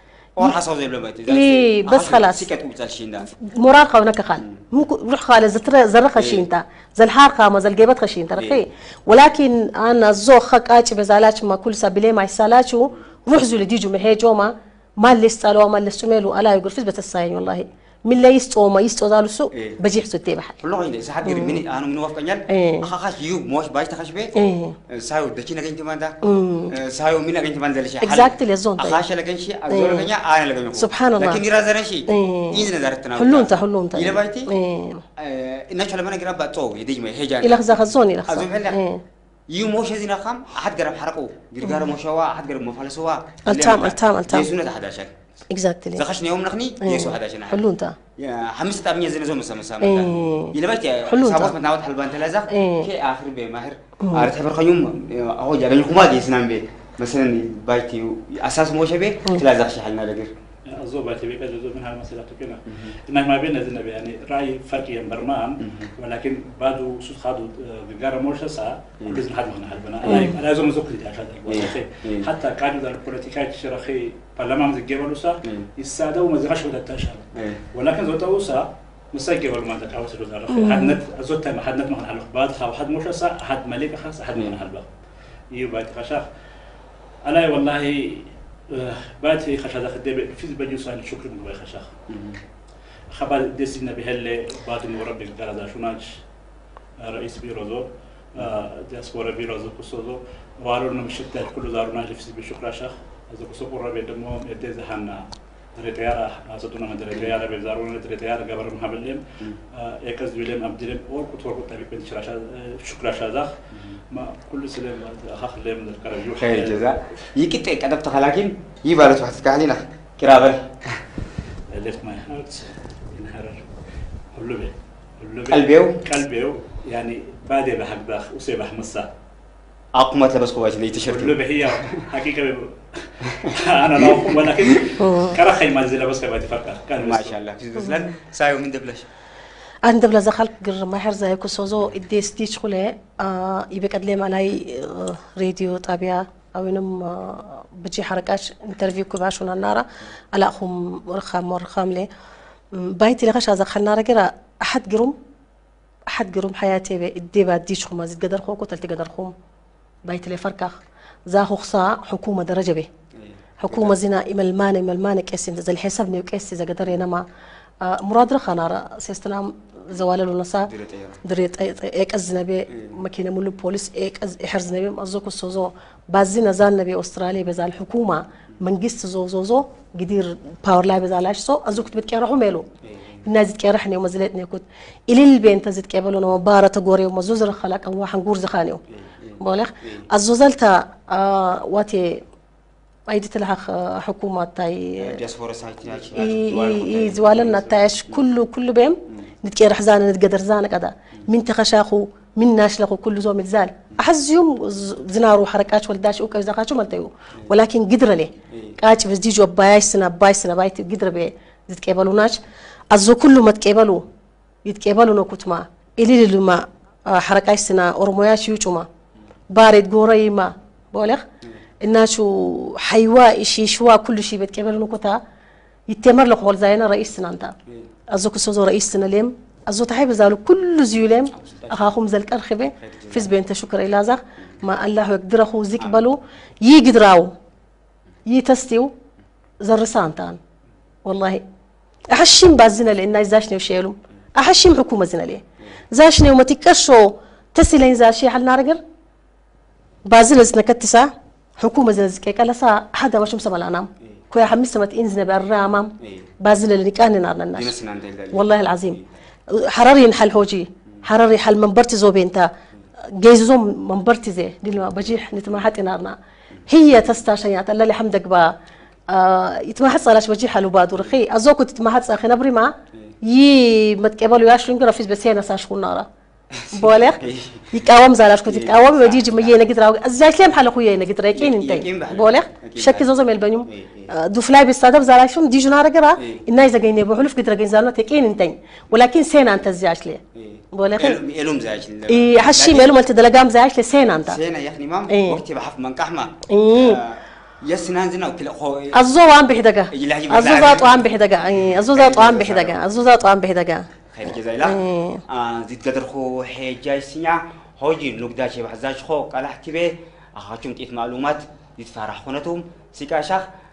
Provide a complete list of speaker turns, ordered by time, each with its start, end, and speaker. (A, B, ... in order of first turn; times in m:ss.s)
0:00.4-0:03.3 A
0:01.3-0:02.5 B
0:03.3-0:20.6 B
0:06.2-0:06.5 A
0:19.5-0:19.8 A
0:20.6-0:24.4 A
0:21.2-0:21.6 B
0:22.5-0:22.9 B
0:24.4-0:24.8 B
0:24.9-0:26.2 A
0:26.2-0:26.7 B
0:26.7-0:34.5 A
0:28.0-0:29.0 B
0:29.7-0:30.1 B
0:30.8-0:31.4 B
0:32.1-0:35.0 B
0:35.2-0:38.8 A
0:37.4-0:39.0 B
0:39.5-0:45.1 A
0:41.6-0:41.9 B
0:43.5-0:44.5 B
0:45.5-0:46.0 B
0:46.0-0:47.6 A
0:46.8-0:48.0 B
0:48.2-1:00.3 A
0:49.8-0:50.6 B
0:51.1-0:51.6 B
0:52.5-0:52.9 B
0:54.0-0:54.3 B
1:00.7-1:24.9 C
1:02.7-1:03.0 A
1:05.6-1:05.9 A
1:10.1-1:10.4 B
1:11.5-1:12.3 A
1:17.4-1:17.6 A
1:20.5-1:21.0 B
1:24.4-1:24.6 A
1:25.5-1:26.3 C
1:27.3-1:31.9 C
1:32.1-1:32.4 A
1:33.1-1:36.2 C
1:37.0-1:53.6 C
1:38.4-1:38.7 A
1:54.1-1:56.9 C
1:56.4-2:01.0 A
2:01.7-2:03.7 C
2:04.3-2:09.1 C
2:05.5-2:06.0 A
2:10.0-2:12.0 A
2:11.1-2:17.4 C
2:13.2-2:14.9 A
2:15.0-2:15.4 B
2:17.0-2:19.1 A
2:19.8-2:32.1 B
2:32.7-2:35.2 B
2:36.1-2:39.3 B
2:40.0-2:42.9 B
2:43.2-2:44.0 A
2:43.6-2:47.2 B
2:47.8-2:50.7 B
2:50.6-2:51.2 A
2:51.2-3:02.7 B
2:52.7-2:53.0 A
3:02.8-3:03.2 A
3:03.2-3:08.8 B
3:08.9-3:10.0 A
3:09.4-3:12.2 B
3:13.1-3:15.2 B
3:15.0-3:18.2 A
3:16.2-3:32.4 B
3:28.5-3:28.8 A
3:32.9-3:34.0 B
3:34.6-3:38.9 B
3:39.5-3:41.2 B
3:41.8-3:45.2 B
3:45.9-3:47.6 B
3:48.1-3:57.3 B
3:51.3-3:52.0 A
3:52.8-3:53.3 A
3:58.3-3:58.9 B
3:59.6-4:00.4 B
4:01.0-4:01.4 B
4:02.1-4:08.8 B
4:10.1-4:17.7 B
4:16.0-4:16.3 A
4:17.5-4:19.0 A
4:18.3-4:19.0 B
4:19.5-4:22.5 B
4:23.2-4:28.6 B
4:29.1-4:36.1 B
4:36.5-4:37.7 A
4:36.7-4:50.2 B
4:38.5-4:39.6 A
4:41.3-4:43.1 A
4:43.7-4:44.1 A
4:46.2-4:46.4 A
4:50.4-4:53.0 A
4:50.7-4:51.2 B
4:52.1-4:54.4 B
4:54.2-4:59.0 A
4:55.1-4:55.4 B
4:56.5-4:57.0 B
4:58.9-5:03.9 B
4:59.9-5:01.0 A
5:01.9-5:02.8 A
5:04.1-5:13.5 A
5:04.6-5:05.2 B